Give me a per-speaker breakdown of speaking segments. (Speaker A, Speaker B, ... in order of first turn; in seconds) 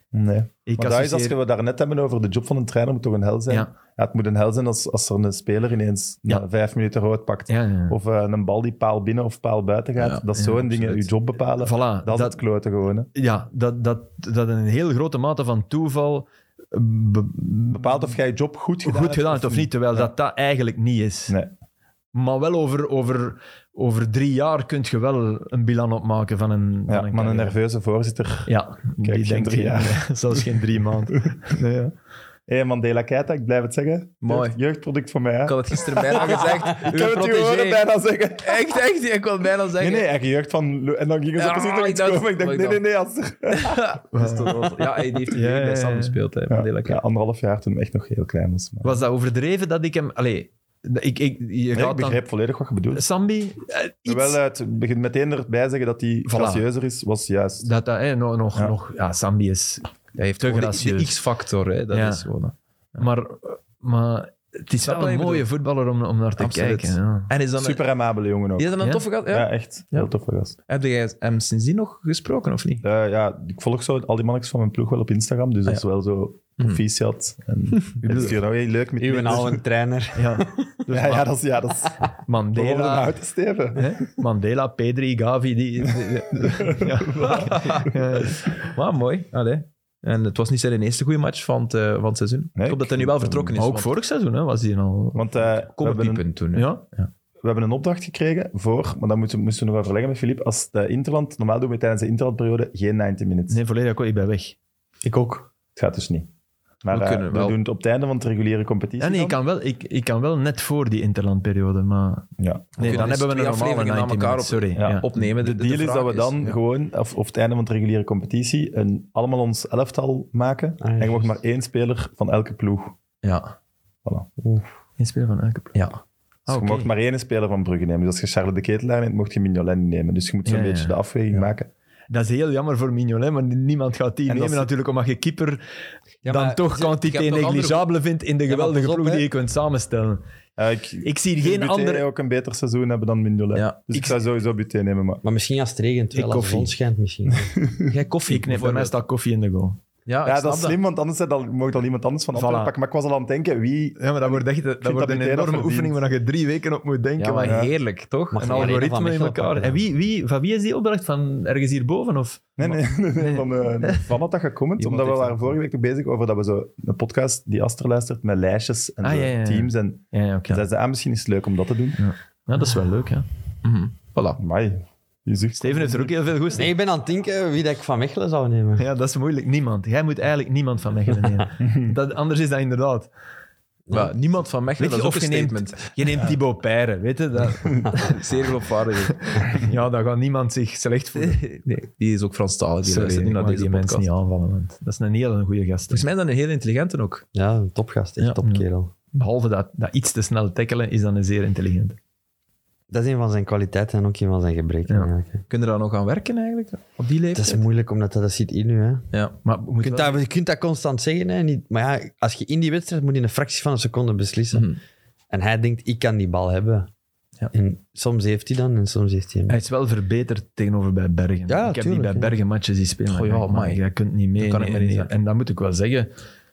Speaker A: 0.1-13.1, 17.7-20.1, 26.9-30.6, 32.5-38.6, 39.8-44.0, 46.5-49.0, 51.7-53.0, 54.1-57.7, 67.6-68.8, 69.3-70.5, 72.8-79.6, 80.9-84.1, 86.1-87.9, 92.6-93.6, 95.1-96.2, 97.4-103.6, 105.8-106.3, 106.8-109.4, 112.4-113.0, 114.8-123.0, 126.5-131.7, 134.3-134.7, 140.6-145.2, 147.5-147.9, 150.2-156.0, 157.4-157.7, 162.6-172.0, 174.4-176.2, 181.6-181.9
Speaker B: 0.7-1.4, 7.5-8.0, 10.4-10.6, 11.6-12.4, 13.1-18.2, 18.8-21.4, 22.1-27.6, 28.5-31.9, 44.1-44.6, 45.3-46.2, 48.8-52.2, 52.9-54.4, 56.3-56.6, 57.6-61.2, 61.9-62.3, 63.0-67.3, 80.2-81.2, 82.3-83.1, 83.8-88.5, 93.6-95.5, 96.5-96.9, 103.5-104.6, 109.0-115.0, 125.0-125.8, 126.5-126.9, 130.5-131.4, 132.1-135.6, 136.2-140.2, 141.0-142.1, 146.1-146.7, 148.2-149.8, 152.3-152.7, 154.0-157.6, 158.4-164.1, 164.8-165.3, 169.0-170.6, 172.0-173.3, 175.6-176.7, 178.8-183.1, 184.8-188.2, 189.1-191.4, 192.8-196.1, 198.4-202.0, 209.4-210.2, 219.5-226.1
Speaker C: 10.0-11.0, 34.2-34.6, 35.5-40.1, 41.4-42.8, 43.5-47.0, 60.2-63.1, 64.8-65.5, 66.4-67.9, 68.6-70.1, 70.7-72.8, 77.8-78.3, 87.5-93.9, 95.8-97.1, 106.9-107.6, 112.8-116.6, 123.2-123.5, 125.7-126.0, 137.0-137.9, 147.9-149.0, 150.1-150.8, 157.2-158.8, 173.6-174.4, 183.9-185.9, 187.9-189.6, 191.2-194.1, 195.9-197.3, 205.5-207.7, 214.5-214.8, 223.1-223.8, 224.4-225.1
Speaker D: 79.0-80.8, 105.0-105.5, 120.8-121.3, 124.4-124.7, 136.2-136.9, 138.5-139.2, 145.2-147.6, 158.3-159.8, 176.5-178.9, 183.9-184.1, 197.3-198.9, 202.9-205.4, 207.3-209.1, 209.8-214.7, 215.3-216.9, 217.5-219.6, 221.5-222.4